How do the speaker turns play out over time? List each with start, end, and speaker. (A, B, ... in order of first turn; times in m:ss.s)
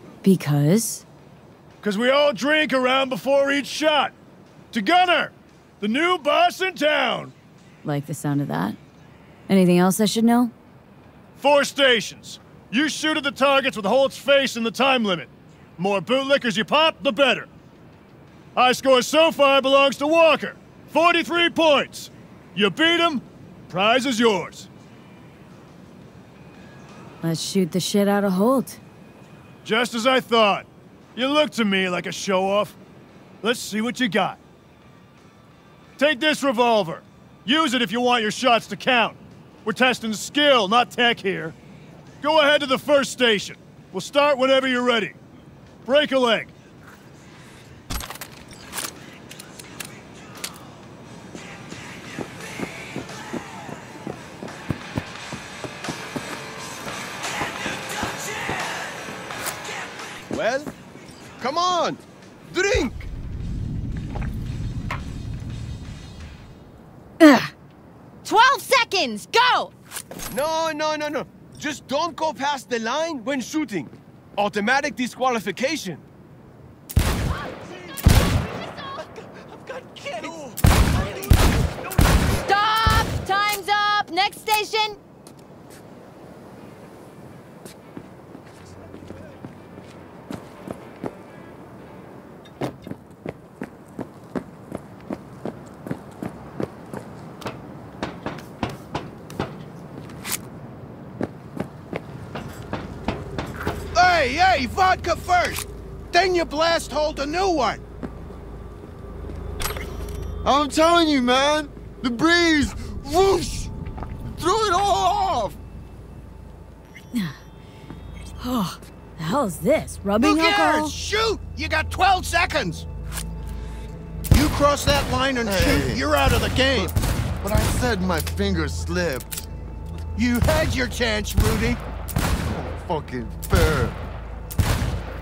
0:00.2-0:01.0 A
0:01.8-0:04.1 B
0:04.7-0:07.3 B
0:07.8-0:08.8 A
0:09.5-0:10.5 A
0:11.4-0:17.5 B
0:18.6-0:24.7 B
0:27.2-0:28.8 A
0:29.6-0:32.8 B
0:33.4-0:34.4 B
0:36.0-0:41.6 B
0:42.2-0:45.2 B
0:45.9-0:46.5 B
1:00.3-1:00.7 C
1:01.4-1:02.0 C
1:02.5-1:03.1 C
1:07.2-1:07.5 A
1:08.2-1:09.7 D
1:10.3-1:16.0 C
1:22.4-1:25.0 D
1:44.0-1:47.8 E
1:50.4-1:53.7 F
1:54.2-1:55.6 F
1:57.1-1:57.4 A
1:58.4-2:00.9 A
2:00.2-2:02.8 E
2:04.3-2:06.9 E
2:05.4-2:06.0 F
2:07.4-2:09.4 F
2:10.2-2:11.8 E
2:12.5-2:14.0 F